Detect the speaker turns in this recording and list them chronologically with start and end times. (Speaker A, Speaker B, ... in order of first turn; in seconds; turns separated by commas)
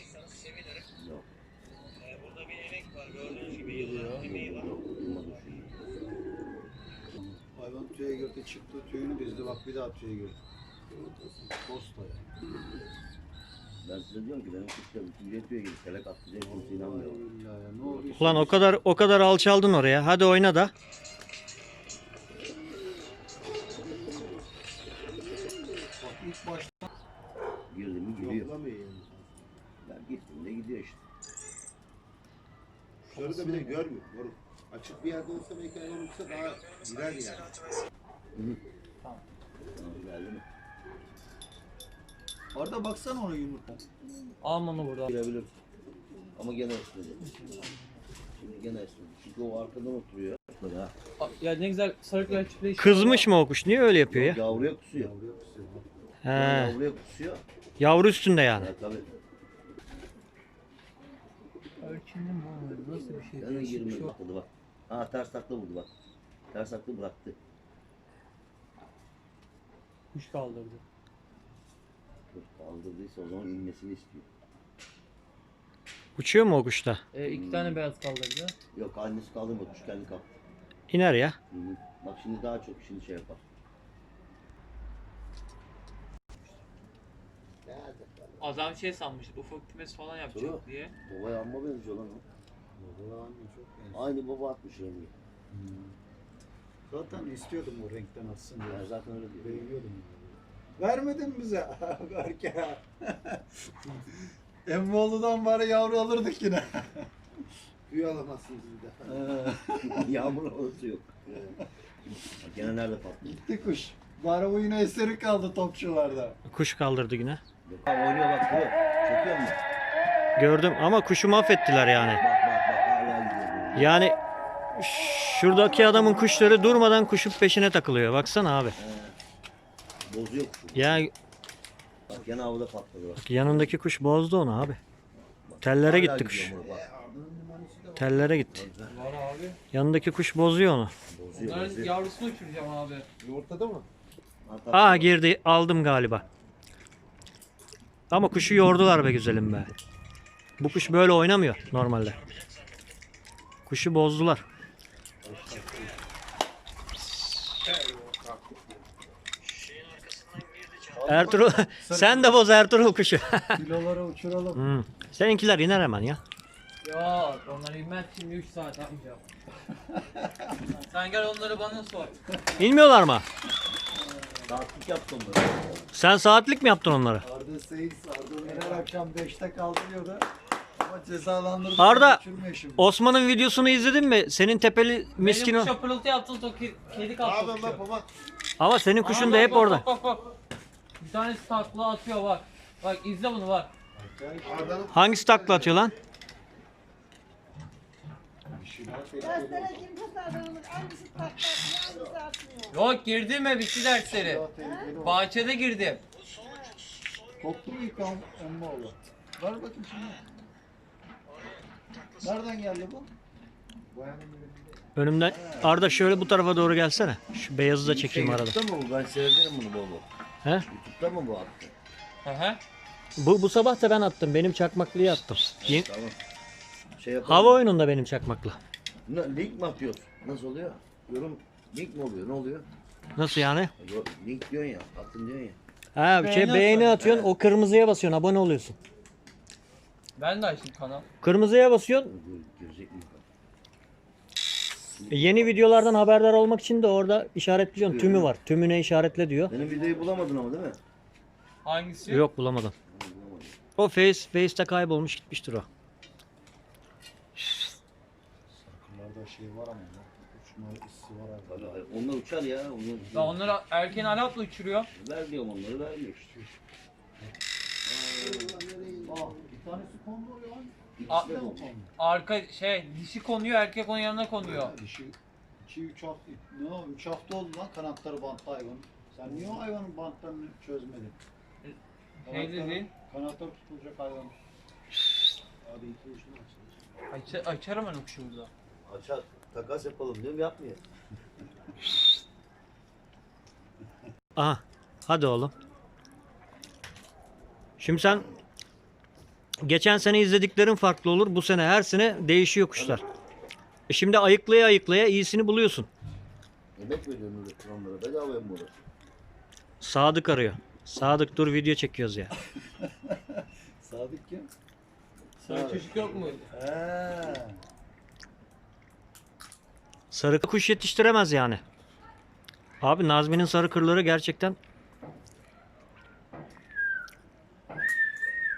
Speaker A: 0.9-1.2, Speaker B: 3.4-4.2, Speaker A: 4.0-5.8, Speaker C: 7.1-10.4, Speaker C: 11.4-12.2, Speaker A: 13.8-17.2, Speaker C: 16.4-18.7, Speaker A: 17.8-18.6, Speaker D: 18.2-20.7, Speaker C: 25.9-26.9, Speaker A: 27.7-28.5, Speaker E: 28.2-29.2, Speaker A: 29.8-31.0, Speaker C: 33.1-33.9, Speaker E: 33.1-37.5, Speaker A: 38.3-38.6, Speaker A: 39.7-40.4, Speaker C: 42.5-43.8, Speaker B: 44.4-45.1, Speaker A: 45.0-45.5, Speaker A: 46.4-47.3, Speaker B: 47.2-48.0, Speaker A: 48.3-50.9, Speaker B: 51.2-53.3, Speaker D: 52.8-54.4, Speaker A: 54.1-55.1, Speaker C: 54.4-55.9, Speaker D: 56.2-56.8, Speaker A: 56.3-57.4, Speaker D: 57.8-58.7, Speaker A: 58.5-59.1, Speaker B: 61.8-64.1, Speaker A: 63.4-65.9, Speaker A: 66.5-67.4, Speaker B: 70.1-70.8, Speaker A: 72.3-74.2, Speaker D: 76.2-77.0, Speaker B: 77.1-78.5, Speaker A: 77.2-77.8, Speaker A: 78.7-80.4, Speaker D: 80.9-81.3, Speaker A: 81.5-83.4, Speaker A: 87.7-88.5, Speaker B: 88.4-90.9, Speaker A: 90.3-92.2, Speaker C: 92.7-94.0, Speaker A: 93.9-95.1, Speaker C: 95.5-96.0, Speaker C: 96.9-107.1, Speaker A: 98.7-99.7, Speaker E: 107.9-109.2, Speaker C: 109.0-110.1, Speaker A: 109.8-111.2, Speaker A: 112.3-113.4, Speaker C: 113.2-116.4, Speaker D: 116.5-117.4, Speaker A: 117.6-119.6, Speaker D: 120.4-122.2, Speaker A: 122.2-123.9, Speaker D: 123.7-124.2, Speaker D: 124.8-128.7, Speaker A: 128.8-129.2, Speaker A: 130.1-131.1, Speaker D: 130.7-131.1, Speaker A: 132.1-133.8, Speaker D: 133.2-134.8, Speaker A: 135.4-136.9, Speaker D: 135.6-136.6, Speaker E: 136.6-138.4, Speaker D: 137.9-138.6, Speaker A: 138.5-139.0, Speaker B: 138.9-139.6, Speaker D: 139.7-140.9, Speaker A: 141.1-141.9, Speaker B: 141.3-143.1, Speaker E: 143.2-143.8, Speaker A: 144.4-145.2, Speaker D: 144.7-146.2, Speaker D: 148.1-149.7, Speaker D: 150.6-152.3, Speaker D: 153.7-154.4, Speaker C: 155.2-156.0, Speaker E: 157.6-158.8, Speaker D: 159.5-163.6, Speaker C: 160.9-162.4, Speaker C: 163.5-164.7, Speaker D: 164.6-166.2, Speaker B: 166.8-169.2, Speaker C: 169.9-170.7, Speaker B: 170.8-172.1, Speaker D: 172.6-173.2, Speaker C: 173.9-174.5, Speaker A: 174.4-175.8, Speaker D: 175.9-177.2, Speaker C: 177.2-180.3, Speaker B: 178.4-178.8, Speaker C: 180.8-182.9, Speaker D: 181.8-182.2, Speaker D: 182.8-185.7, Speaker B: 185.2-187.8, Speaker E: 187.1-188.1, Speaker D: 188.6-189.8, Speaker B: 189.0-190.3, Speaker B: 191.0-193.7, Speaker C: 193.9-194.9, Speaker E: 194.4-195.9, Speaker D: 194.9-195.9, Speaker C: 198.5-200.0, Speaker F: 199.2-202.7, Speaker B: 202.7-204.4, Speaker C: 204.0-205.3, Speaker B: 205.0-206.0, Speaker C: 207.4-210.2, Speaker C: 212.2-213.1, Speaker E: 213.9-214.8, Speaker D: 214.9-218.6, Speaker C: 215.2-215.9, Speaker A: 217.8-220.1, Speaker A: 220.7-221.7, Speaker B: 222.2-222.6, Speaker D: 223.2-225.9, Speaker A: 225.6-226.2, Speaker A: 227.0-227.6, Speaker D: 227.3-228.6, Speaker A: 229.1-232.7, Speaker D: 233.2-233.7, Speaker A: 233.8-235.6, Speaker D: 235.9-238.8, Speaker B: 236.2-237.0, Speaker A: 237.0-237.3, Speaker B: 240.2-241.1, Speaker D: 241.2-242.1, Speaker A: 242.1-243.2, Speaker A: 245.0-245.6, Speaker D: 245.1-249.5, Speaker A: 247.8-248.3, Speaker A: 249.5-250.8, Speaker B: 251.6-252.2, Speaker D: 252.1-252.7, Speaker A: 252.9-253.6, Speaker D: 253.8-255.7, Speaker C: 258.5-261.8, Speaker A: 261.4-263.5, Speaker B: 263.1-264.9, Speaker A: 264.9-266.3, Speaker A: 267.9-269.4, Speaker C: 268.3-271.9, Speaker A: 271.0-271.7, Speaker B: 271.1-271.4, Speaker B: 272.0-274.7, Speaker C: 274.4-281.2, Speaker B: 281.6-282.9, Speaker C: 282.2-284.3, Speaker C: 285.6-286.7, Speaker B: 287.1-288.5, Speaker A: 288.8-290.8, Speaker D: 294.4-295.5, Speaker D: 297.8-298.2, Speaker D: 299.6-303.0, Speaker A: 302.7-303.0, Speaker D: 303.9-305.9, Speaker A: 306.8-308.7, Speaker D: 309.8-312.3, Speaker C: 312.6-314.5, Speaker C: 315.4-317.6, Speaker B: 315.4-316.5, Speaker D: 320.1-321.6, Speaker D: 322.8-324.6